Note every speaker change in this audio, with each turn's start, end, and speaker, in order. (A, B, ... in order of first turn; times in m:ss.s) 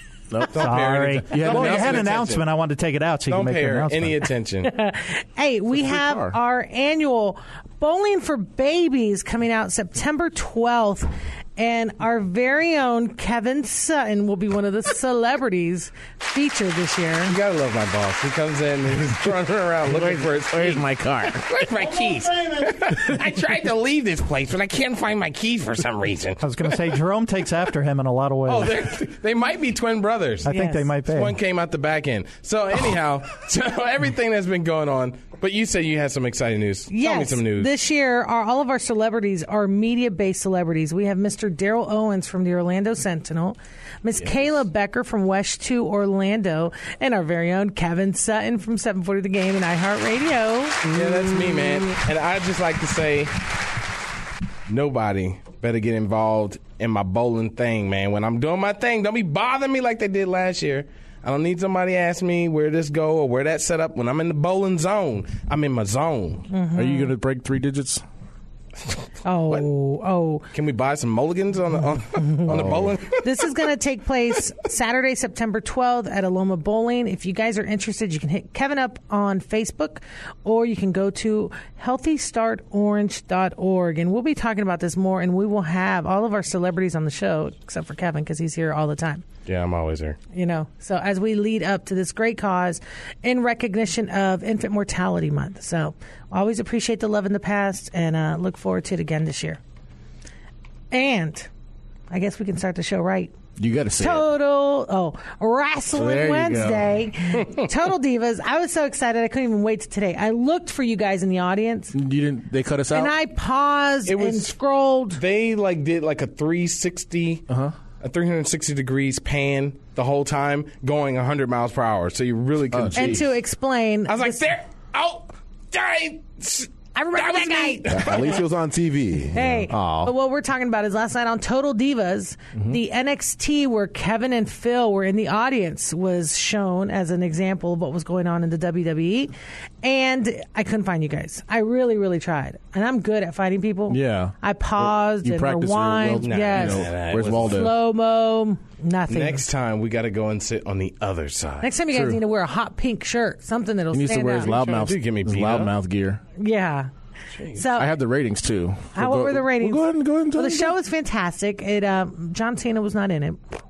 0:00.3-0:00.6 A
0:00.5-0:02.4 B
0:00.5-0:04.2 C
0:01.3-0:02.2 A
0:03.3-0:04.7 B
0:04.7-0:17.3 D
0:05.7-0:06.4 A
0:17.3-0:20.8 B
0:19.8-0:21.9 A
0:21.3-0:26.4 B
0:26.4-0:28.8 C
0:28.5-0:30.5 B
0:30.4-0:31.4 C
0:30.5-0:30.9 D
0:31.0-0:37.7 B
0:36.9-0:50.8 D
0:50.9-0:53.3 B
0:51.0-0:51.8 A
0:54.7-1:06.5 B
1:06.5-1:07.1 D
1:06.7-1:08.0 A
1:09.2-1:10.5 D
1:10.5-1:13.3 B
1:12.2-1:12.5 D
1:12.5-1:13.0 A
1:13.2-1:29.2 D
1:29.4-1:30.2 B
1:30.3-1:39.6 D
1:40.9-1:41.5 D
1:42.1-1:43.3 D
1:43.6-1:44.3 A
1:44.0-1:51.9 D
1:45.9-1:47.0 A
1:51.9-1:53.1 A
1:52.9-1:55.2 D
1:54.1-1:54.5 B
1:55.2-1:57.4 B
1:57.5-1:57.7 A
1:58.0-2:03.2 B
2:02.7-2:03.3 A
2:02.9-2:04.4 D
2:04.1-2:08.4 B
2:06.9-2:08.1 D
2:07.9-2:10.1 E
2:09.3-2:29.4 D
2:23.9-2:27.8 A
2:26.2-2:27.6 B
2:29.1-2:31.7 B
2:31.6-2:34.7 D
2:31.9-2:32.2 A
2:33.9-2:36.2 A
2:34.5-2:35.7 B
2:36.4-2:36.9 D
2:37.3-2:37.6 B
2:37.5-2:37.9 D
2:37.8-2:40.7 A
2:38.9-2:43.4 D